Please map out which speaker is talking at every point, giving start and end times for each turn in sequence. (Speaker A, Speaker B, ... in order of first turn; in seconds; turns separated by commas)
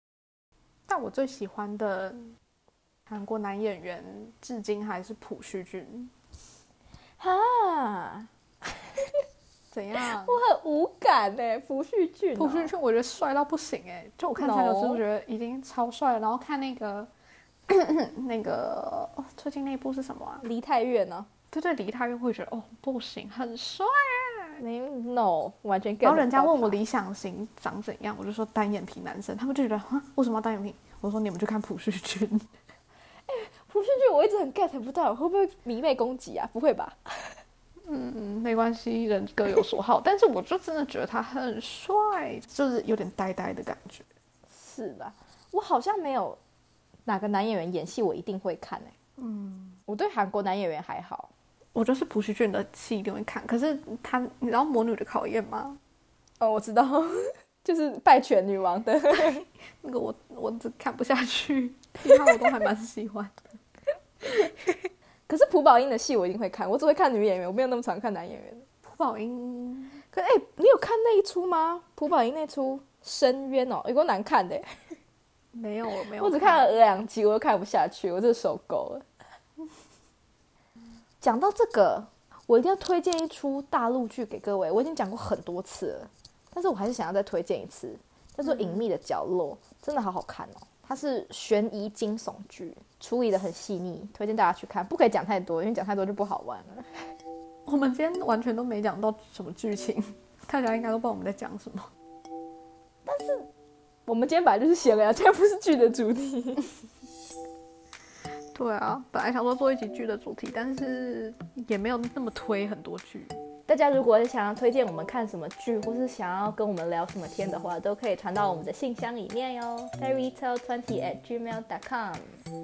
Speaker A: 0.9-2.3, Speaker A: 3.1-6.1, Speaker B: 7.2-8.3, Speaker A: 9.7-10.4, Speaker B: 10.1-12.7, Speaker A: 12.4-17.1, Speaker B: 14.4-15.0, Speaker A: 17.7-20.4, Speaker B: 20.4-21.3, Speaker A: 21.5-24.6, Speaker B: 24.6-26.8, Speaker A: 26.0-32.5, Speaker B: 33.3-37.3, Speaker A: 37.9-44.0, Speaker B: 44.5-46.4, Speaker B: 47.0-48.9, Speaker A: 49.2-49.8, Speaker B: 49.9-51.3, Speaker A: 51.7-55.8, Speaker B: 56.4-59.5, Speaker A: 59.8-63.5, Speaker B: 64.2-64.7, Speaker B: 65.3-68.7, Speaker A: 68.8-70.0, Speaker B: 70.1-74.7, Speaker A: 75.5-76.7, Speaker B: 76.2-79.0, Speaker B: 81.2-97.0, Speaker A: 88.4-88.9, Speaker A: 97.7-101.9, Speaker B: 103.0-103.5, Speaker B: 104.1-106.7, Speaker A: 108.5-113.3, Speaker B: 113.7-122.4